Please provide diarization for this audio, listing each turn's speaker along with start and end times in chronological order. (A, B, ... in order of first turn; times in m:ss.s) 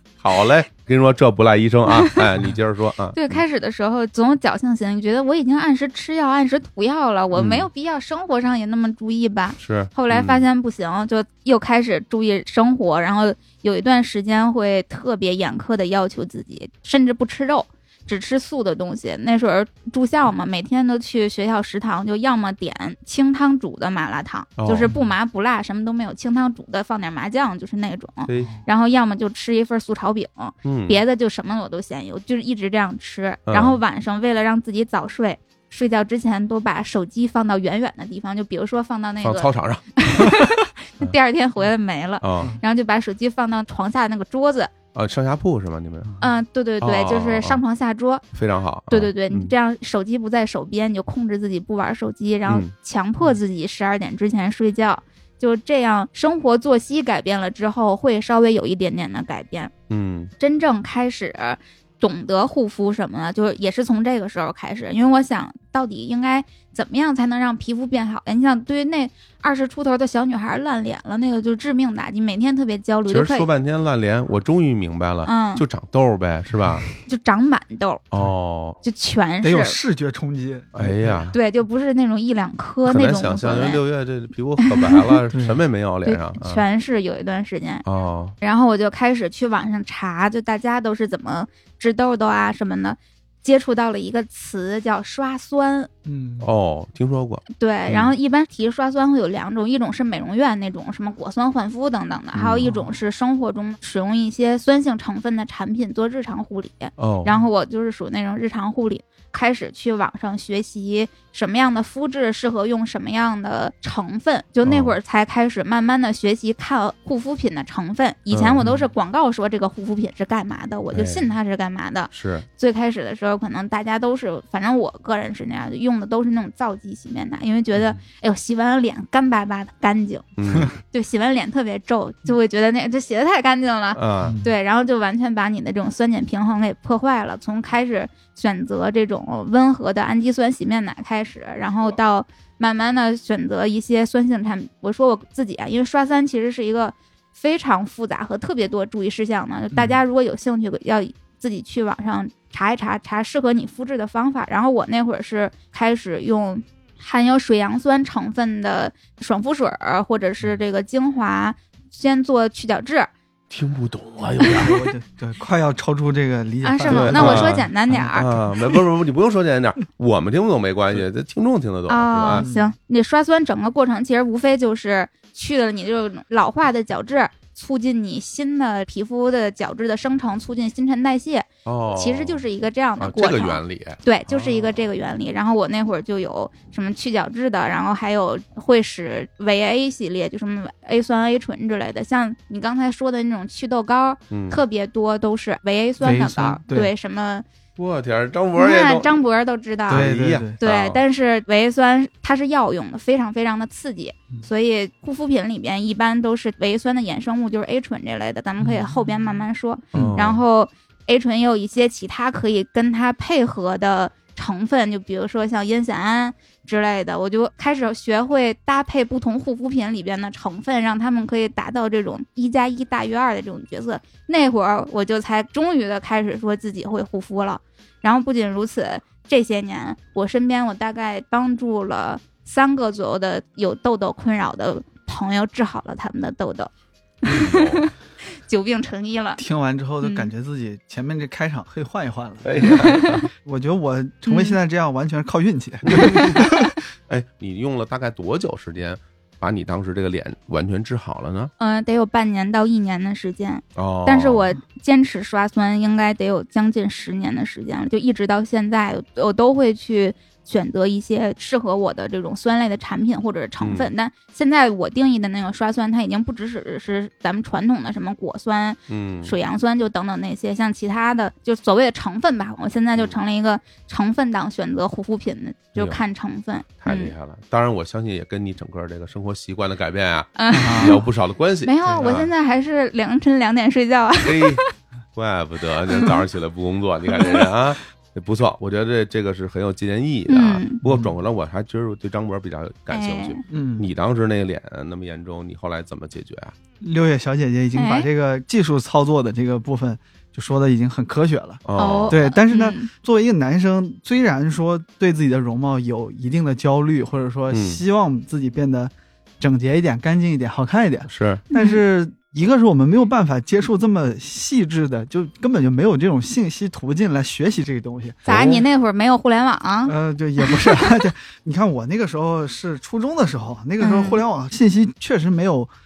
0:00.2-0:03.4 A
0:03.1-0:44.7 B
0:07.4-0:07.7 A
0:09.6-0:10.4 A
0:24.6-0:24.9 A
0:30.6-0:31.0 A
0:33.5-0:33.8 A
0:39.2-0:40.3 A
0:42.2-0:42.6 A
0:45.0-0:46.1 A
0:46.2-0:48.2 B
0:46.8-0:47.6 A
0:48.3-0:49.5 A
0:48.9-0:59.7 B
0:52.5-0:52.7 A
0:59.9-1:00.3 A
1:00.4-1:13.5 B
1:13.1-1:16.9 A
1:15.2-1:15.6 B
1:17.0-1:18.0 B
1:18.1-1:18.8 A
1:18.8-1:19.8 B
1:19.4-1:21.2 C
1:20.8-1:21.4 A
1:21.3-1:23.8 B
1:22.9-1:26.6 A
1:24.6-1:25.0 B
1:25.3-1:25.6 C
1:26.0-1:27.8 B
1:27.9-1:28.4 A
1:28.4-1:35.9 B
1:36.0-1:36.5 C
1:36.4-1:38.1 A
1:37.5-2:10.2 B
1:42.3-1:42.7 A
1:42.6-1:42.9 C
1:47.0-1:47.4 A
1:54.6-1:55.0 A
1:58.3-1:58.8 A
2:00.9-2:01.3 A
2:02.1-2:02.4 A
2:10.4-2:10.7 A
2:10.9-2:43.1 B
2:14.0-2:14.4 A
2:43.5-2:44.8 A
2:44.4-2:48.8 C
2:46.6-2:48.3 B
2:46.9-2:52.4 A
2:51.9-3:17.4 B
2:52.3-2:52.7 C
3:01.6-3:02.4 A
3:03.0-3:04.8 A
3:14.3-3:14.6 A
3:16.0-3:16.9 C
3:17.8-3:19.2 A
3:18.6-3:20.0 B
3:19.9-3:21.0 A
3:19.9-3:20.6 C
3:20.6-3:56.7 B
3:28.6-3:29.0 C
3:29.9-3:30.4 C
3:29.9-3:30.4 A
3:57.2-3:59.4 B
3:57.2-3:57.9 A
3:59.4-4:02.8 C
4:00.0-4:00.3 B
4:02.4-4:03.3 A
4:02.6-4:03.2 B
4:03.4-4:06.7 C
4:04.2-4:04.6 B
4:05.9-4:06.4 A
4:07.1-4:11.5 A
4:11.6-4:37.1 B
4:13.8-4:14.5 A
4:23.6-4:23.9 A
4:28.9-4:29.4 A
4:35.8-4:36.0 A
4:36.8-4:42.3 A
4:40.4-4:41.0 B
4:40.5-4:41.0 C
4:41.6-4:44.7 B
4:44.2-4:44.6 A
4:45.2-4:56.5 A
4:45.9-4:46.1 B
4:50.3-4:50.8 B
4:50.8-4:51.1 C
4:52.9-4:53.4 B
4:53.5-4:53.9 C
4:56.8-5:18.2 C
4:57.8-4:58.1 B
5:01.6-5:02.2 A
5:01.8-5:02.9 B
5:07.5-5:07.8 A
5:11.1-5:11.4 A
5:11.5-5:11.8 B
5:18.2-5:21.0 B
5:18.3-5:18.6 A
5:19.9-5:25.7 C
5:23.8-5:24.2 B